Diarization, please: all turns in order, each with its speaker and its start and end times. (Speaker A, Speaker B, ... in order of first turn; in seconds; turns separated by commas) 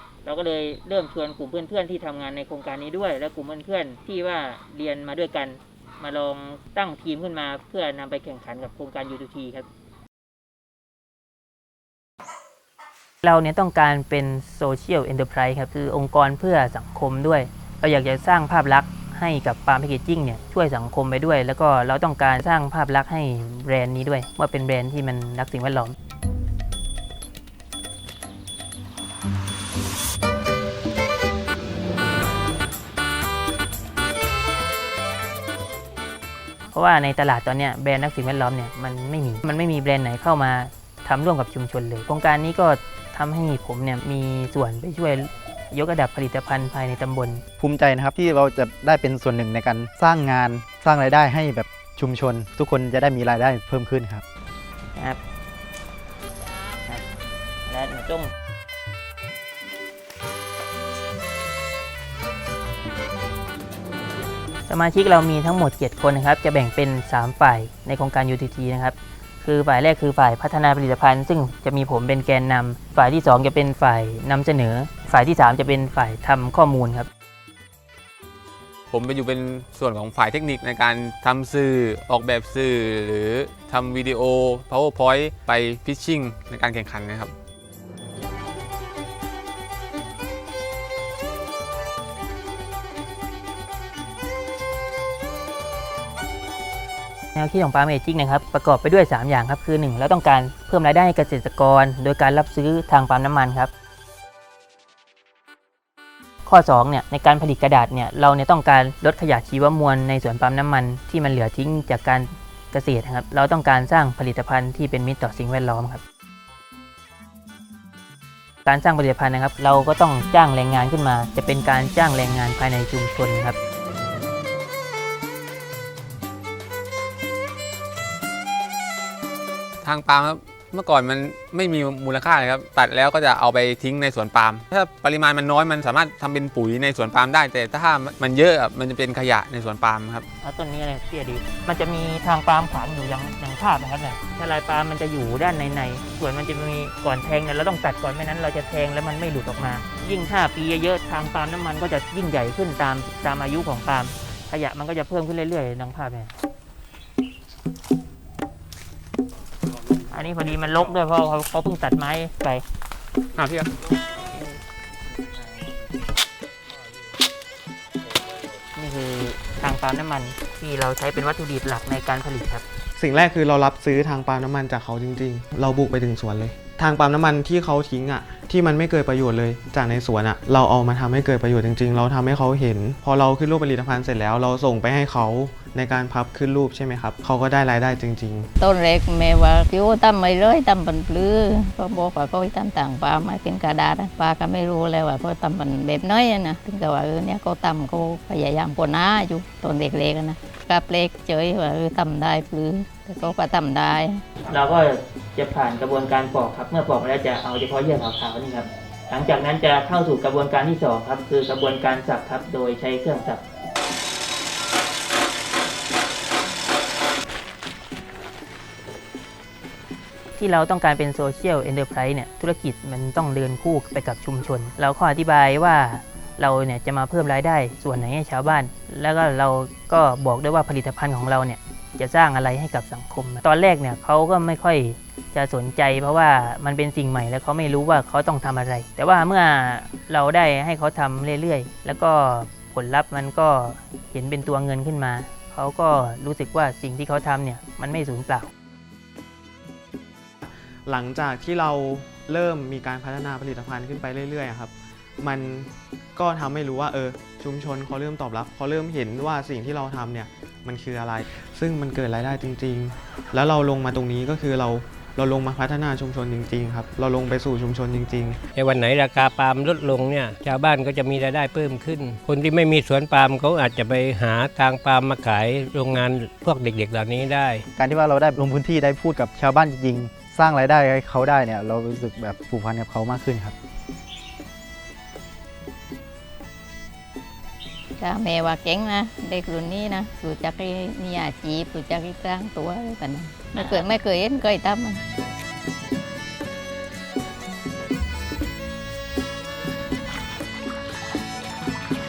Speaker A: 0.2-9.7, Speaker A: 13.2-25.9, Speaker A: 36.7-47.4, Speaker B: 47.6-54.2, Speaker A: 57.7-58.3, Speaker A: 64.7-77.1, Speaker C: 78.9-87.3, Speaker A: 97.3-103.7, Speaker A: 106.5-116.0, Speaker A: 118.6-123.5, Speaker C: 129.8-140.2, Speaker A: 140.4-156.3, Speaker A: 160.1-162.6, Speaker C: 163.4-163.7, Speaker A: 168.7-172.6, Speaker D: 172.9-188.5, Speaker E: 188.6-204.2, Speaker A: 204.4-213.4, Speaker A: 220.3-248.5, Speaker D: 250.4-268.4, Speaker F: 268.5-277.6, Speaker B: 277.8-283.6, Speaker E: 288.0-295.0